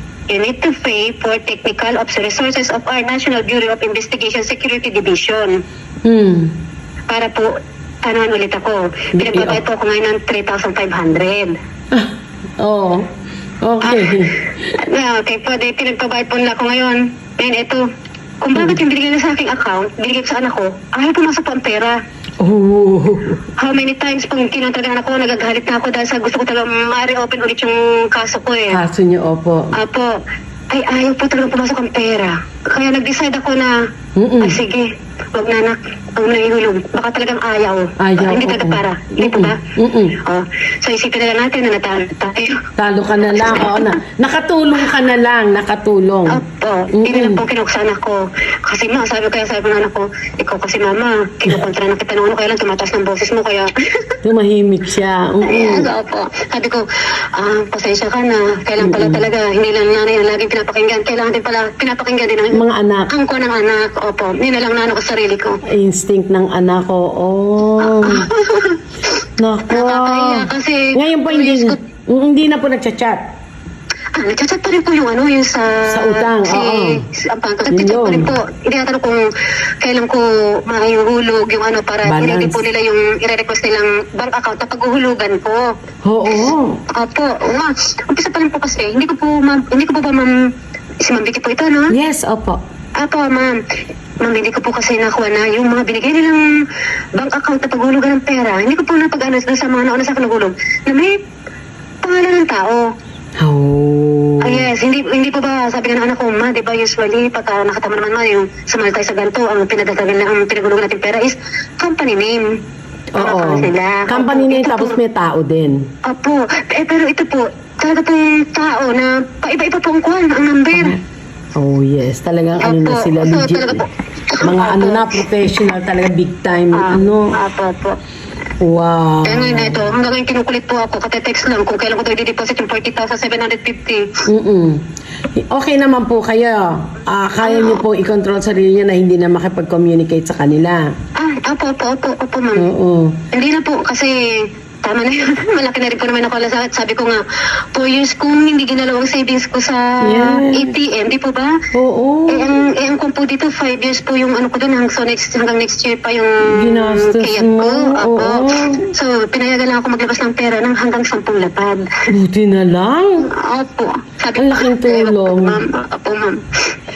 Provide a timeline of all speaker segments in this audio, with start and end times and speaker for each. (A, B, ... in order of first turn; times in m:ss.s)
0:00.3-0:05.5 A
0:06.0-0:06.5 B
0:07.1-0:07.5 A
0:08.0-0:11.5 A
0:09.1-0:09.6 B
0:11.9-0:13.1 B
0:13.6-0:14.4 B
0:13.8-0:14.2 A
0:14.8-0:17.8 A
0:18.4-0:22.0 A
0:22.4-0:23.4 B
0:23.6-0:28.8 A
0:28.7-0:29.7 B
0:29.7-0:30.1 A
0:30.7-0:33.7 A
0:34.2-0:34.6 B
0:34.4-0:39.6 A
0:38.0-0:40.2 B
0:40.2-0:42.6 A
0:42.8-0:46.4 B
0:43.4-0:43.9 A
0:46.3-0:53.7 A
0:46.9-0:47.4 B
0:54.2-0:55.9 B
0:55.4-0:56.8 A
0:57.4-1:05.6 A
0:58.8-0:59.2 B
1:02.5-1:03.1 B
1:05.7-1:08.3 B
1:07.8-1:08.8 A
1:09.4-1:13.2 B
1:09.7-1:11.8 A
1:14.2-1:19.2 A
1:15.9-1:17.0 B
1:17.7-1:18.3 B
1:19.8-1:25.6 A
1:22.0-1:22.6 B
1:26.0-1:26.8 B
1:26.9-1:30.3 A
1:31.0-1:31.9 A
1:31.9-1:32.6 B
1:33.0-1:33.5 A
1:34.2-1:36.4 A
1:37.2-1:41.1 A
1:42.0-1:42.8 A
1:43.4-1:44.7 B
1:44.4-1:52.4 A
1:53.1-1:55.8 B
1:53.2-1:55.0 A
1:56.0-2:01.0 A
2:00.7-2:01.0 B
2:01.6-2:03.8 B
2:02.6-2:05.2 A
2:04.4-2:07.3 B
2:06.7-2:08.0 A
2:08.6-2:09.8 B
2:09.2-2:14.0 A
2:14.3-2:14.8 B
2:15.4-2:20.8 B
2:17.4-2:17.8 A
2:21.2-2:22.7 A
2:22.6-2:23.2 B
2:23.3-2:27.2 A
2:27.7-2:31.5 A
2:30.0-2:30.7 B
2:31.7-2:32.6 B
2:32.3-2:41.8 A
2:36.5-2:38.8 B
2:42.1-2:43.3 B
2:43.2-2:46.4 A
2:44.4-2:45.6 B